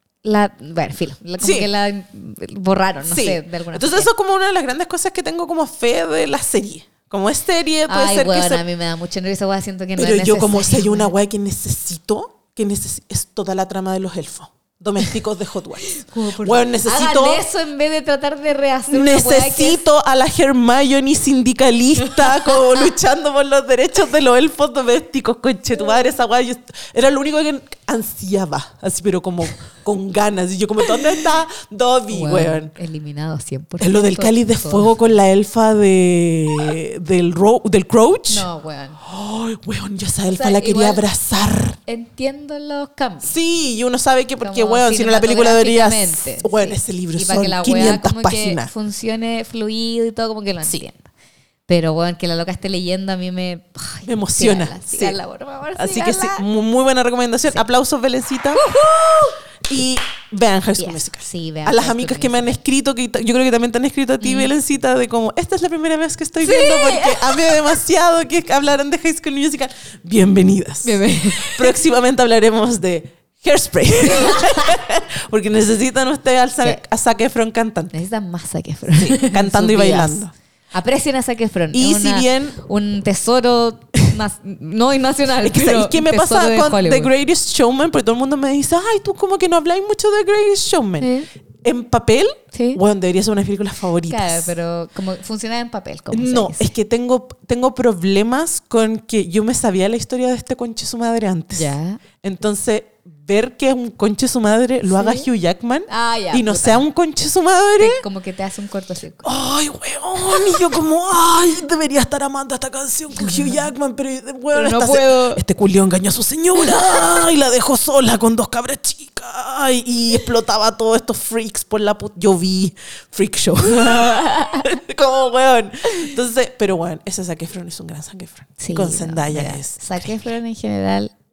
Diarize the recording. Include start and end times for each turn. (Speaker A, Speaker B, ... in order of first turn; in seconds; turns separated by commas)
Speaker A: 0.2-4.1, Speaker B: 1.4-1.7, Speaker B: 3.1-8.6, Speaker A: 7.9-11.1, Speaker B: 10.0-17.4, Speaker A: 15.9-19.8, Speaker B: 18.9-32.7, Speaker A: 22.0-22.8, Speaker A: 32.1-34.9, Speaker B: 33.8-38.5, Speaker A: 38.3-39.0, Speaker B: 39.0-41.8, Speaker A: 40.3-43.3, Speaker B: 43.2-48.7, Speaker A: 44.4-51.1, Speaker A: 51.7-56.4, Speaker B: 54.1-55.2, Speaker B: 55.8-58.7, Speaker A: 58.6-59.4, Speaker B: 59.6-77.9, Speaker A: 60.8-62.6, Speaker A: 64.2-64.5, Speaker A: 66.4-67.8, Speaker A: 70.8-71.8, Speaker A: 74.1-74.7, Speaker A: 77.9-87.1, Speaker B: 78.9-80.3, Speaker B: 81.7-82.6, Speaker B: 85.4-91.1, Speaker A: 91.0-91.3, Speaker B: 91.6-94.5, Speaker A: 92.5-92.8, Speaker A: 94.1-96.7, Speaker B: 96.1-101.7, Speaker A: 101.5-102.0, Speaker B: 102.2-108.0, Speaker A: 104.9-105.3, Speaker A: 105.9-106.8, Speaker A: 107.8-109.3, Speaker B: 109.2-130.3, Speaker A: 110.2-110.7, Speaker A: 113.1-113.7, Speaker A: 114.5-115.4, Speaker A: 123.7-124.7, Speaker A: 128.6-131.1